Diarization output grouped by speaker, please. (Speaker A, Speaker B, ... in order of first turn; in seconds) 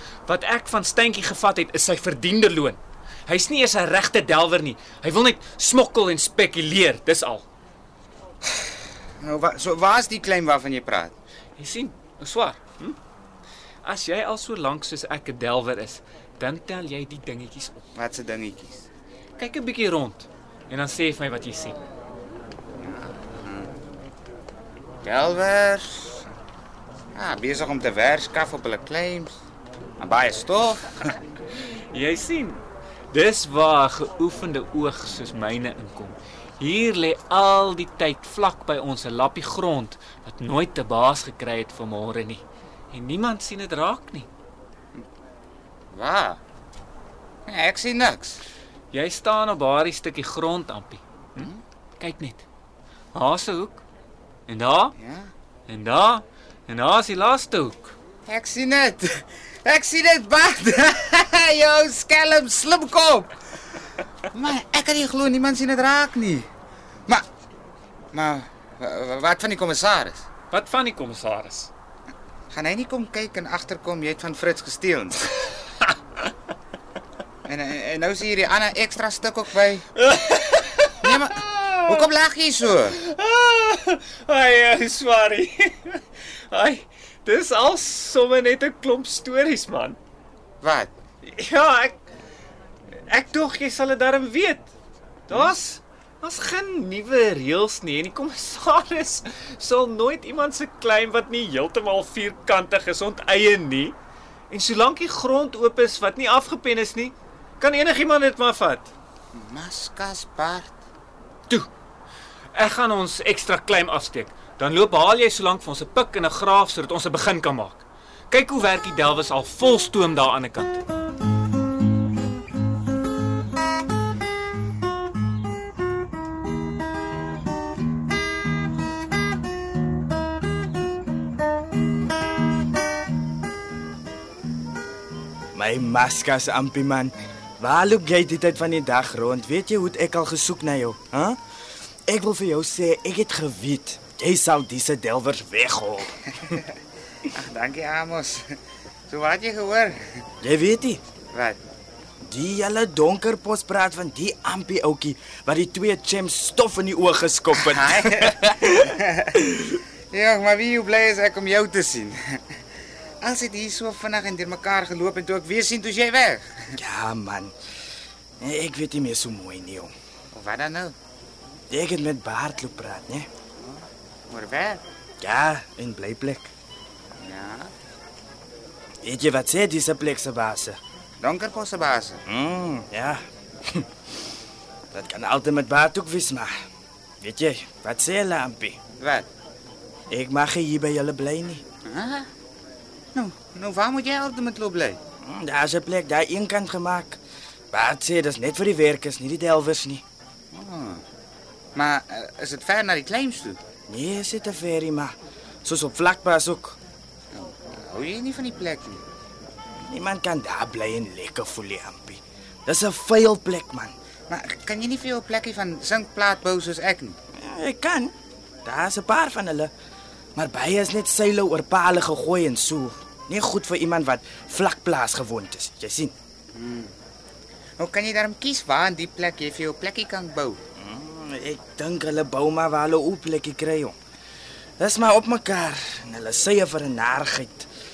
Speaker A: 0.2-7.4, 11.6-13.0, 13.8-17.8, 19.4-21.8, 31.9-44.3, 48.9-52.4, 53.1-53.8, 54.5-54.9, 55.7-57.9, 70.5-71.7, 80.0-82.1, 83.0-90.0, 91.2-92.0, 93.1-94.7, 95.3-104.0, 104.5-108.9, 112.5-120.8
Speaker B: 9.2-11.1, 18.0-18.9, 22.8-23.7, 25.0-26.2, 27.1-29.4, 30.0-31.1, 45.9-46.4, 47.5-48.4, 55.0-55.3, 58.3-63.3, 64.3-66.5, 68.1-70.2, 72.5-75.2, 77.5-79.8, 81.0-83.0, 90.6-90.9, 109.3-110.7, 147.3-148.4, 149.1-150.0, 151.3-151.6, 157.6-162.2, 163.2-166.5, 170.3-170.9, 173.6-174.8, 177.2-177.7, 181.2-182.2, 189.0-189.3, 191.9-192.3, 193.2-195.0, 200.5-201.0, 201.8-203.6, 207.3-209.0, 214.3-217.2, 226.6-226.9, 227.8-230.6
Speaker C: 135.6-141.4, 142.1-146.2, 150.4-151.0, 152.2-158.3, 166.8-167.5, 168.4-169.9, 171.7-173.3, 175.2-176.5, 179.0-180.8, 182.3-183.9, 184.9-186.5, 187.2-188.8, 190.1-191.6, 195.2-197.2, 197.7-200.0, 203.9-206.8, 209.9-213.9, 217.4-218.1, 218.7-219.7, 220.4-226.1, 230.8-233.9, 234.8-237.7